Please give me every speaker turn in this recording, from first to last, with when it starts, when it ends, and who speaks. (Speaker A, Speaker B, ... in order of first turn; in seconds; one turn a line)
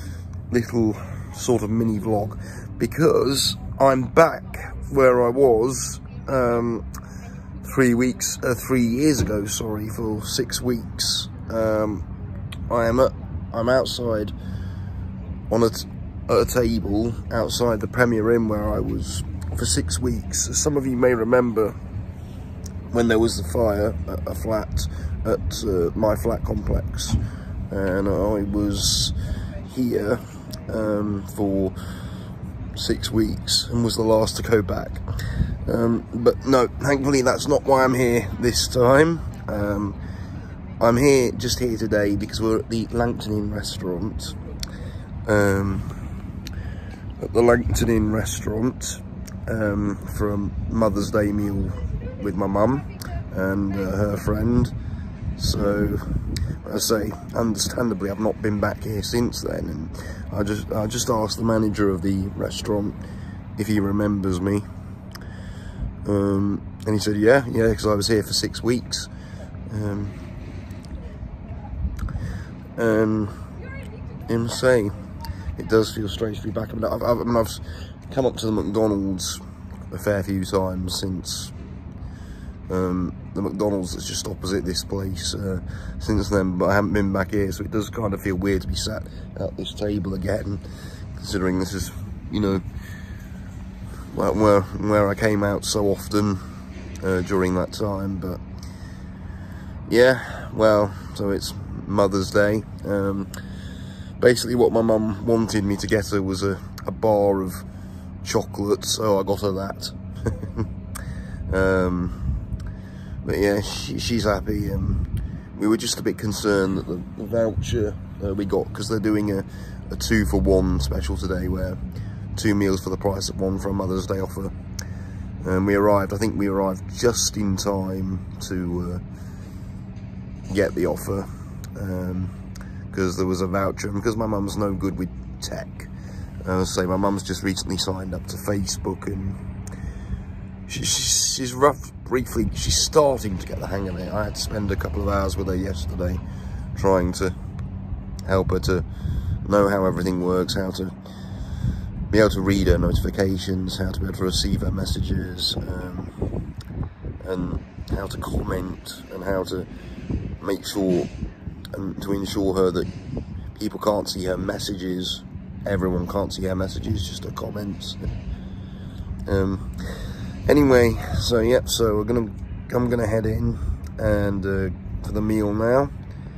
Speaker A: 0.5-6.9
Speaker A: 7.6-12.0
Speaker A: 12.7-14.3
Speaker A: 15.5-21.8
Speaker A: 22.9-27.2
Speaker A: 27.7-29.2
Speaker A: 29.7-31.8
Speaker A: 32.8-35.0
Speaker A: 35.7-40.0
Speaker A: 40.8-44.4
Speaker A: 45.2-46.0
Speaker A: 47.2-54.7
Speaker A: 55.4-63.0
Speaker A: 63.6-64.7
Speaker A: 66.0-69.1
Speaker A: 69.7-70.2
Speaker A: 72.8-73.5
Speaker A: 74.3-75.0
Speaker A: 75.6-81.5
Speaker A: 82.7-90.6
Speaker A: 91.2-92.6
Speaker A: 94.1-96.4
Speaker A: 97.0-98.4
Speaker A: 99.9-103.3
Speaker A: 104.2-107.7
Speaker A: 108.2-110.7
Speaker A: 111.5-112.4
Speaker A: 113.2-121.8
Speaker A: 122.4-124.5
Speaker A: 125.4-129.0
Speaker A: 130.5-132.3
Speaker A: 132.9-135.9
Speaker A: 136.4-139.4
Speaker A: 140.7-146.2
Speaker A: 146.8-147.3
Speaker A: 148.3-148.9
Speaker A: 149.4-150.9
Speaker A: 152.1-156.3
Speaker A: 157.2-159.7
Speaker A: 160.4-161.1
Speaker A: 161.7-162.9
Speaker A: 163.6-168.1
Speaker A: 169.3-169.7
Speaker A: 170.5-175.9